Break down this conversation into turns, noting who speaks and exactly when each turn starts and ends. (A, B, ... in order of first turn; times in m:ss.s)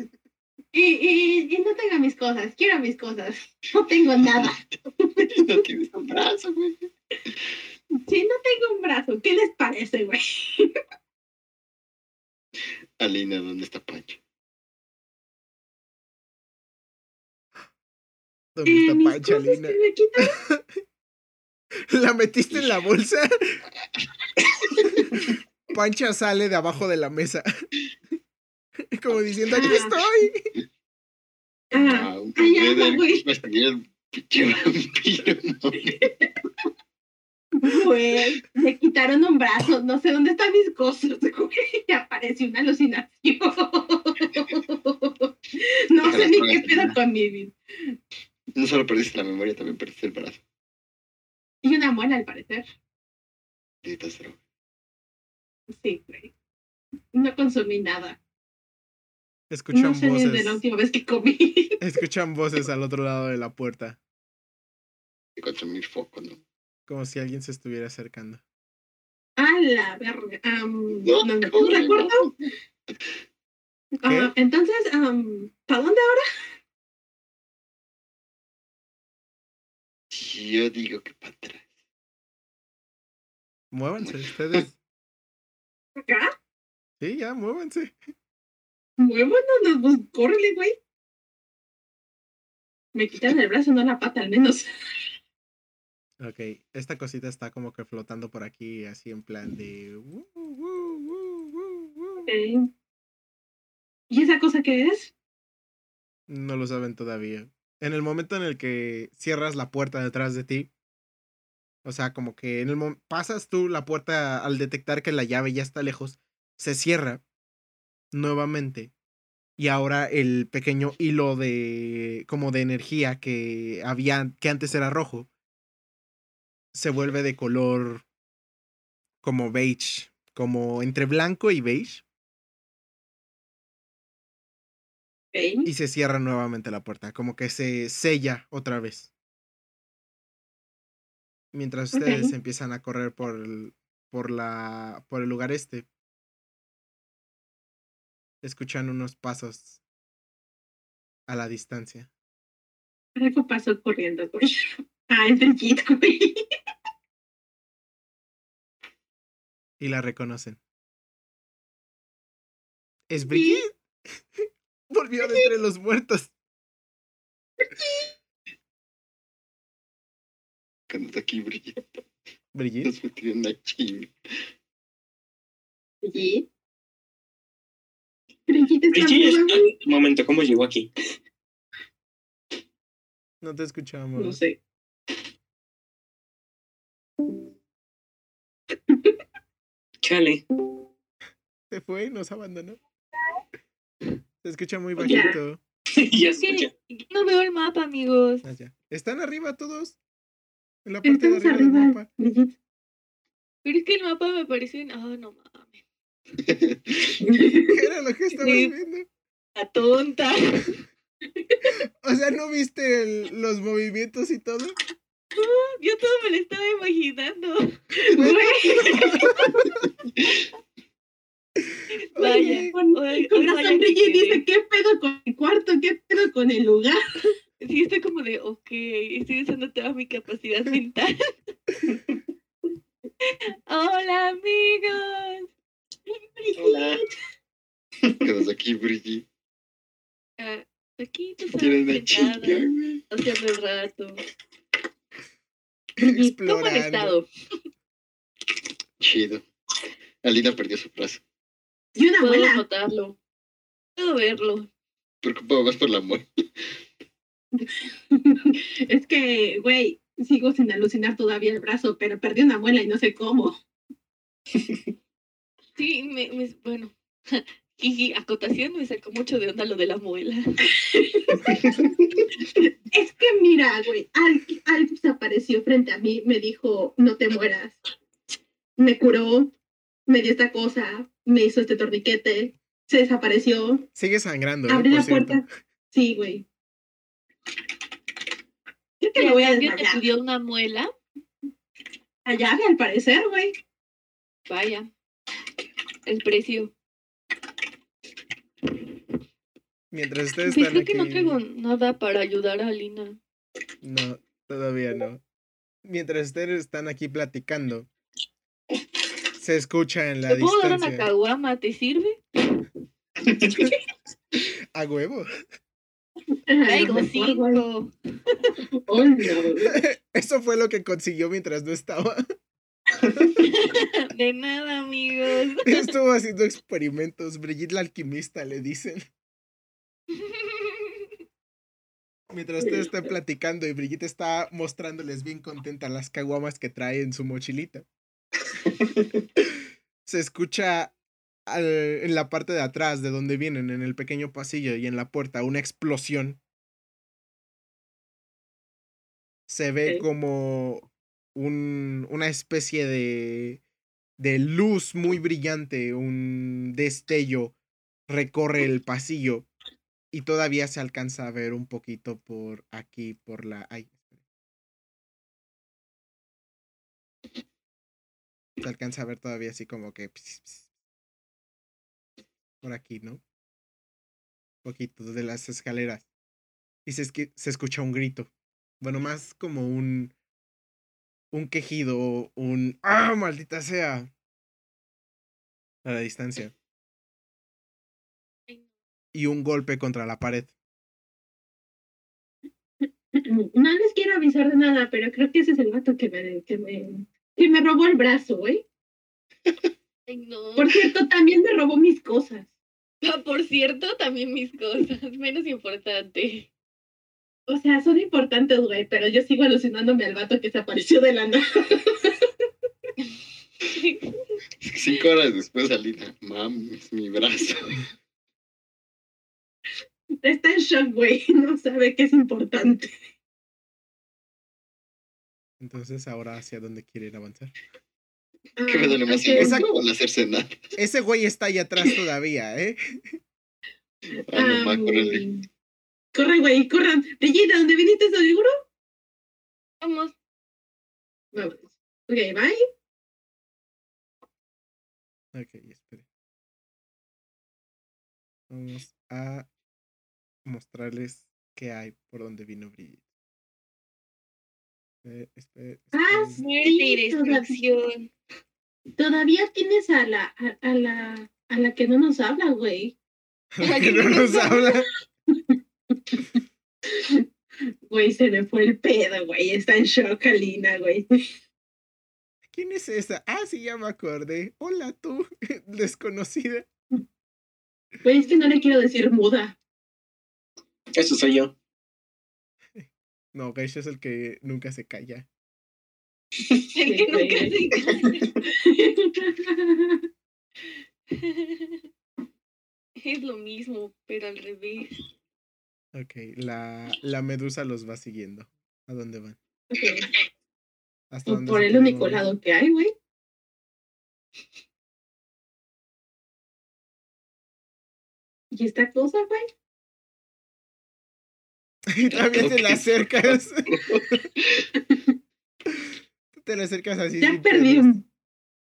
0:00.7-0:05.6 A
0:04.2-0:04.5 B
0:05.3-0:07.4 B
0:08.1-0:10.8 A
0:13.0-0:14.2 B
0:18.5-0:20.6 C
0:18.6-0:20.3 A
0:21.9-0:23.6 C
0:24.8-0:25.2 C
0:25.7-0:27.5 C
0:28.9-0:30.5 C
0:29.5-0:30.0 A
0:31.7-0:36.1 B
0:31.7-0:33.2 A
0:37.6-0:47.5 A
0:46.0-0:47.0 B
0:48.6-0:50.4 B
0:51.6-0:52.6 A
0:53.8-0:54.4 B
0:55.7-0:56.3 A
0:57.1-0:58.2 A
0:59.5-1:00.6 C
0:59.7-1:01.8 A
1:01.8-1:04.0 C
1:05.4-1:06.4 B
1:06.9-1:08.4 C
1:09.4-1:12.3 A
1:11.0-1:12.3 B
1:14.0-1:16.2 A
1:14.0-1:14.3 C
1:20.1-1:21.7 B
1:23.7-1:24.8 C
1:24.0-1:24.6 B
1:26.0-1:26.3 A
1:27.0-1:28.0 C
1:29.0-1:30.8 A
1:32.9-1:34.7 A
1:36.2-1:42.3 C
1:42.2-1:42.7 A
1:44.1-1:45.1 A
1:46.3-1:50.7 C
1:51.8-1:57.2 C
1:58.1-1:58.9 C
1:59.6-2:05.3 C
2:06.7-2:08.0 C
2:09.2-2:12.0 C
2:15.3-2:15.7 A
2:15.6-2:19.1 C
2:21.5-2:25.8 C
2:21.9-2:22.3 A
2:28.4-2:29.8 C
2:31.3-2:32.1 C
2:33.2-2:36.4 A
2:39.8-2:40.6 C
2:43.1-2:43.8 C
2:43.3-2:43.6 A
2:44.9-2:46.3 C
2:47.6-2:48.1 A
2:50.9-2:52.0 B
2:52.5-2:52.9 C
2:52.8-2:54.1 B
2:56.0-2:56.5 A
2:58.5-2:59.7 A
2:58.9-3:00.9 D
3:03.4-3:04.4 C
3:04.2-3:04.6 A
3:08.9-3:09.2 A
3:10.0-3:10.4 D
3:11.7-3:12.8 C
3:14.4-3:15.6 C
3:15.0-3:15.4 A
3:16.0-3:16.7 D
3:16.4-3:18.4 E
3:18.4-3:20.0 C
3:20.8-3:22.1 C
3:21.0-3:22.5 A
3:23.6-3:25.8 E
3:26.4-3:27.2 B
3:27.2-3:27.8 A
3:27.7-3:29.1 C
3:28.4-3:28.7 E
3:29.6-3:30.8 E
3:32.0-3:34.8 C
3:35.4-3:39.4 E
3:38.1-3:39.6 A
3:38.9-3:39.5 C
3:41.7-3:42.7 C
3:42.2-3:44.4 E
3:42.2-3:47.0 A
3:47.6-3:51.1 E
3:53.7-3:55.5 E
3:56.1-3:57.1 A
3:56.6-3:57.0 D
3:58.2-3:59.2 B
4:00.4-4:04.2 E
4:01.5-4:02.8 B
4:06.0-4:07.2 C
4:06.1-4:07.3 E
4:09.0-4:09.4 B
4:10.2-4:11.2 B
4:12.0-4:12.6 A
4:12.2-4:13.2 E
4:14.0-4:14.7 E
4:15.2-4:16.7 B
4:17.5-4:23.6 A
4:25.8-4:30.7 E
4:30.8-4:31.7 A
4:31.5-4:31.7 D
4:32.6-4:37.8 A
4:38.8-4:39.5 A
4:40.1-4:43.8 A
4:43.9-4:45.4 C
4:44.6-4:46.4 A
4:49.0-4:50.0 A
4:49.1-4:50.9 E
4:52.2-4:53.5 A
4:54.5-4:54.9 E
4:56.0-4:56.7 E
4:59.9-5:01.4 C
5:00.4-5:03.2 E
5:03.8-5:05.2 C
5:05.8-5:07.9 C
5:09.4-5:11.1 C
5:10.2-5:12.2 E
5:13.2-5:13.6 D
5:14.7-5:15.3 C
5:16.5-5:17.6 A
5:16.6-5:18.6 E
5:18.7-5:19.8 A
5:19.6-5:22.3 C
5:23.4-5:25.9 E
5:25.6-5:29.0 C
5:30.2-5:30.9 E
5:32.3-5:37.8 C
5:32.6-5:32.9 A
5:40.0-5:40.9 C
5:41.5-5:46.4 C
5:49.5-5:53.6 C
5:54.2-5:57.5 C
5:58.1-5:59.5 C
6:00.1-6:04.1 C
6:08.6-6:10.7 C
6:12.6-6:13.2 C
6:14.6-6:16.0 C
6:16.8-6:18.3 C
6:18.8-6:20.1 C
6:21.3-6:24.1 C
6:25.8-6:26.5 C
6:29.1-6:30.5 C
6:33.1-6:38.6 A
6:40.1-6:40.8 E
6:40.6-6:42.4 A
6:43.0-6:46.5 E
6:47.5-6:52.3 A
6:53.7-6:54.0 E
6:54.6-6:57.8 B
7:00.2-7:02.9 A
7:05.6-7:07.5 C
7:08.6-7:09.7 A
7:08.6-7:10.7 B
7:09.4-7:09.7 C
7:10.8-7:12.8 C
7:14.3-7:15.3 B
7:14.3-7:15.4 A
7:16.1-7:18.5 A
7:19.8-7:20.1 E
7:21.3-7:22.6 A
7:25.3-7:26.0 C
7:28.5-7:29.5 C
7:30.4-7:33.0 C
7:35.0-7:36.4 C
7:35.9-7:37.5 A
7:36.4-7:38.1 E
7:39.0-7:42.9 A
7:43.5-7:44.9 C
7:43.6-7:44.6 E
7:45.3-7:46.2 A
7:47.0-7:47.2 A
7:47.9-7:51.1 A
7:52.5-7:56.6 C
7:58.0-7:59.6 A
8:00.9-8:01.5 D
8:02.7-8:05.3 C
8:06.7-8:08.2 E
8:06.8-8:07.8 A
8:07.9-8:08.3 D
8:08.5-8:10.0 A
8:11.1-8:11.8 E
8:13.0-8:15.0 E
8:15.9-8:19.4 C
8:19.7-8:20.1 A
8:21.1-8:22.2 C
8:21.3-8:22.9 A
8:28.5-8:29.5 A
8:31.9-8:34.2 C
8:32.1-8:34.7 B
8:36.4-8:38.0 C
8:37.2-8:38.0 A